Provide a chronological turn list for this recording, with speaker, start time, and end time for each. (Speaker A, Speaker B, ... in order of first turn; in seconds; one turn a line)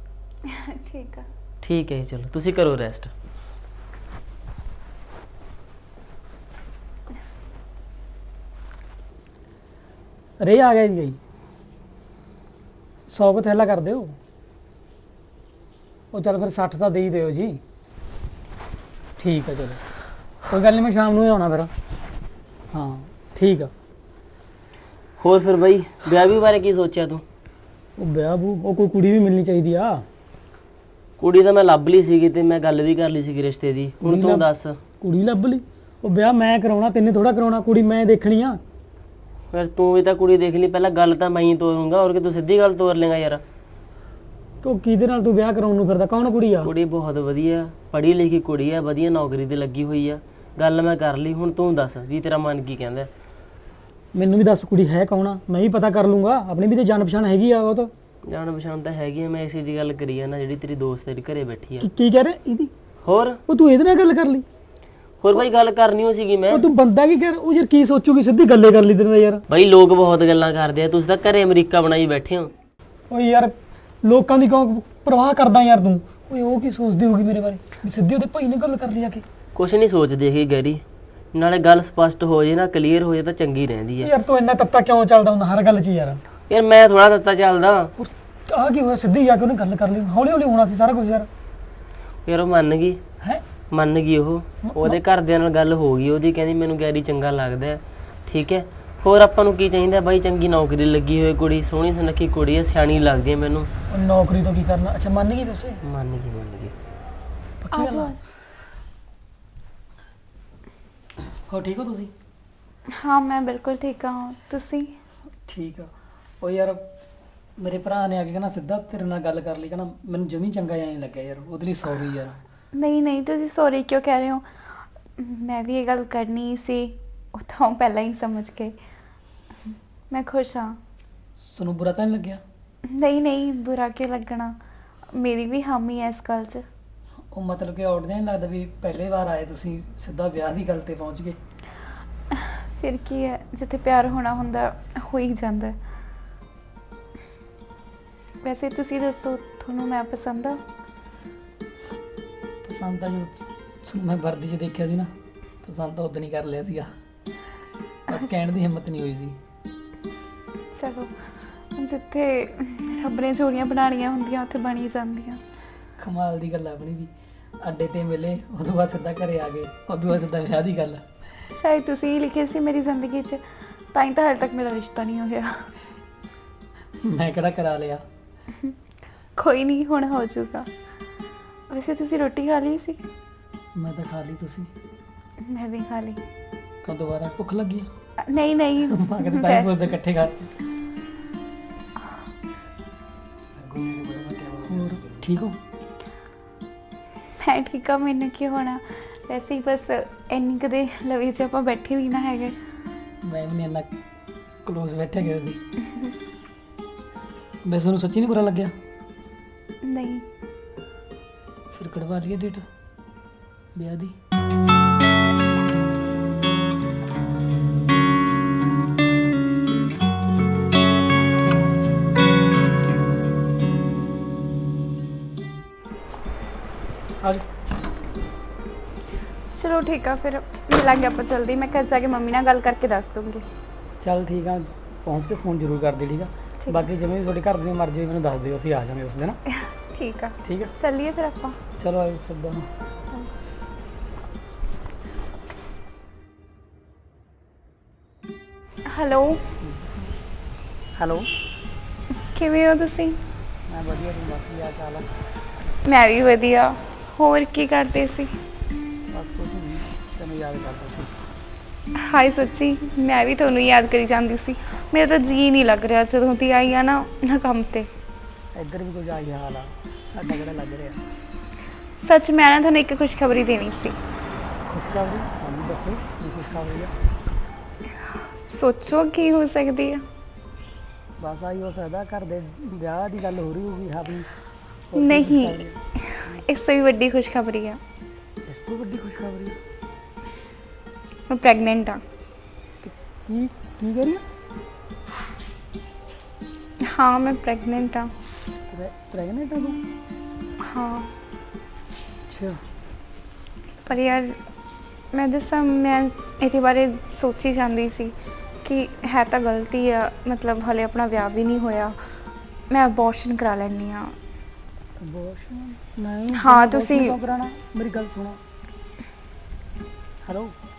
Speaker A: 0.5-1.3
Speaker B: 1.6-3.1
Speaker C: 10.4-11.2
Speaker C: 13.1-14.2
Speaker C: 16.1-17.6
Speaker C: 19.2-19.8
Speaker C: 20.5-21.7
Speaker C: 22.7-23.7
Speaker B: 25.2-27.2
Speaker C: 28.0-30.0
Speaker B: 31.2-34.8
Speaker C: 34.0-34.5
Speaker C: 35.0-38.6
Speaker B: 39.5-43.4
Speaker C: 44.6-46.7
Speaker B: 46.6-53.1
Speaker C: 54.1-57.9
Speaker B: 58.3-61.9
Speaker C: 61.8-62.7
Speaker B: 63.0-63.4
Speaker C: 63.5-64.5
Speaker B: 65.2-66.7
Speaker C: 66.5-69.4
Speaker B: 69.5-72.5
Speaker C: 73.1-79.2
Speaker B: 79.5-80.8
Speaker B: 81.3-84.1
Speaker C: 84.0-86.2
Speaker B: 86.5-87.9
Speaker C: 88.0-91.3
Speaker B: 92.3-93.0
Speaker B: 93.7-103.7
Speaker C: 94.6-95.0
Speaker C: 103.9-105.8
Speaker B: 105.8-106.8
Speaker C: 107.6-108.1
Speaker A: 107.7-108.2
Speaker C: 111.5-112.1
Speaker A: 112.9-115.0
Speaker C: 115.5-115.9
Speaker C: 116.4-116.9
Speaker C: 117.6-122.4
Speaker A: 122.7-124.4
Speaker A: 125.2-128.8
Speaker A: 130.1-130.8
Speaker C: 131.4-132.4
Speaker A: 132.9-134.6
Speaker A: 135.1-136.7
Speaker C: 137.3-141.4
Speaker A: 142.3-145.8
Speaker A: 148.4-150.6
Speaker C: 152.6-155.1
Speaker C: 155.6-156.9
Speaker C: 158.1-159.4
Speaker A: 160.7-161.2
Speaker A: 161.8-165.4
Speaker C: 166.0-171.1
Speaker A: 171.6-175.7
Speaker C: 177.0-178.0
Speaker A: 179.4-180.7
Speaker A: 181.7-183.0
Speaker C: 183.8-184.7
Speaker A: 185.4-186.2
Speaker C: 186.8-187.9
Speaker A: 188.2-189.8
Speaker C: 188.9-190.5
Speaker B: 193.6-195.3
Speaker C: 194.7-195.6
Speaker A: 197.4-202.6
Speaker C: 203.2-203.9
Speaker C: 204.7-205.6
Speaker C: 207.7-208.7
Speaker A: 209.8-210.2
Speaker C: 211.7-212.7
Speaker C: 213.8-214.2
Speaker A: 229.5-233.4
Speaker C: 234.0-239.4
Speaker A: 239.5-241.6
Speaker C: 240.4-240.7
Speaker C: 241.8-242.7
Speaker A: 243.1-243.3
Speaker A: 248.9-249.4
Speaker C: 251.0-251.3
Speaker A: 252.3-253.2
Speaker C: 253.7-255.1
Speaker A: 255.8-258.3
Speaker C: 259.1-261.1
Speaker A: 262.0-267.9
Speaker C: 268.6-271.0
Speaker A: 272.0-274.0
Speaker C: 274.7-276.9
Speaker A: 278.5-280.0
Speaker C: 281.2-284.3
Speaker C: 284.9-286.4
Speaker A: 285.0-287.8
Speaker C: 288.5-289.6
Speaker A: 291.3-292.0
Speaker C: 292.8-294.2
Speaker A: 296.8-298.1
Speaker C: 298.7-299.8
Speaker A: 300.6-301.1
Speaker C: 302.3-302.6
Speaker A: 303.9-304.4
Speaker A: 305.1-312.0
Speaker A: 312.7-314.2
Speaker C: 315.0-318.4
Speaker A: 316.3-317.1
Speaker C: 320.2-320.6